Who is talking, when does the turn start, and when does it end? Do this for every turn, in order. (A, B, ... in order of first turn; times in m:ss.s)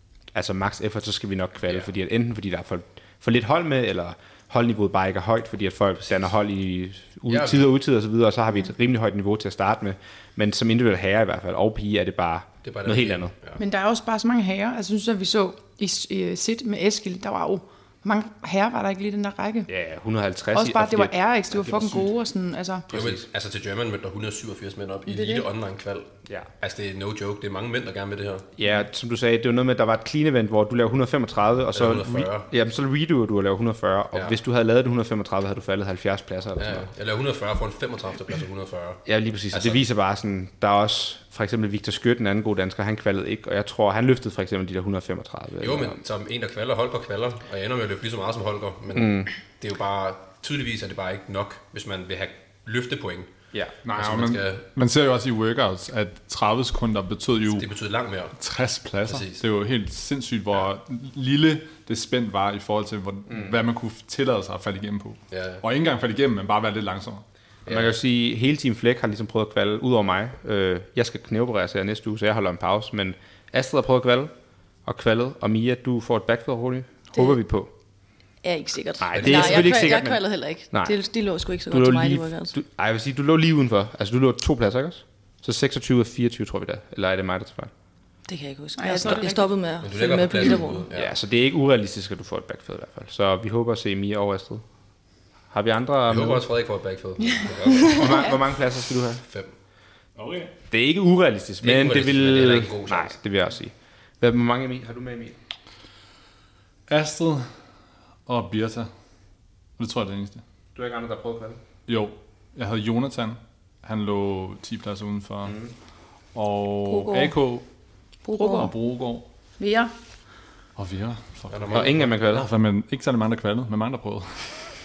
0:00.3-0:13.3 A
0:07.3-0:07.7 B
0:12.6-0:13.6 B
0:13.6-0:19.7 C
0:19.7-0:22.1 A
0:20.5-0:22.9 C
0:22.9-0:23.2 A
0:22.9-0:28.5 B
0:25.1-0:25.5 D
0:28.6-0:36.9 A
0:31.7-0:32.5 B
0:36.6-0:39.8 B
0:39.1-0:46.0 A
0:45.6-0:53.3 B
0:49.0-0:49.3 A
0:53.5-0:54.2 A
0:53.9-0:57.7 E
0:54.0-0:54.7 B
0:57.5-0:58.3 B
0:58.4-1:07.2 E
0:59.0-0:59.4 B
1:05.3-1:05.6 B
1:07.7-1:08.0 B
1:07.7-1:14.3 A
1:14.8-1:17.7 A
1:18.4-1:22.5 D
1:19.0-1:21.0 A
1:19.1-1:20.0 B
1:21.7-1:27.7 A
1:28.3-1:30.9 D
1:28.8-1:29.6 C
1:29.8-1:31.1 B
1:30.9-1:34.6 A
1:35.5-1:36.5 A
1:36.1-1:38.2 B
1:37.8-1:39.2 A
1:39.3-1:39.5 B
1:40.2-1:40.5 E
1:40.7-1:45.4 A
1:41.6-1:43.2 B
1:46.9-1:47.5 E
1:48.3-1:48.9 E
1:49.8-1:50.4 E
1:50.8-1:51.6 A
1:51.9-1:55.6 E
1:55.5-1:55.7 A
1:56.3-1:57.7 E
1:56.9-1:57.4 D
1:58.2-1:58.8 D
1:58.3-1:59.3 E
1:59.6-1:59.9 C
2:00.8-2:04.7 E
2:01.5-2:02.0 B
2:01.7-2:02.5 A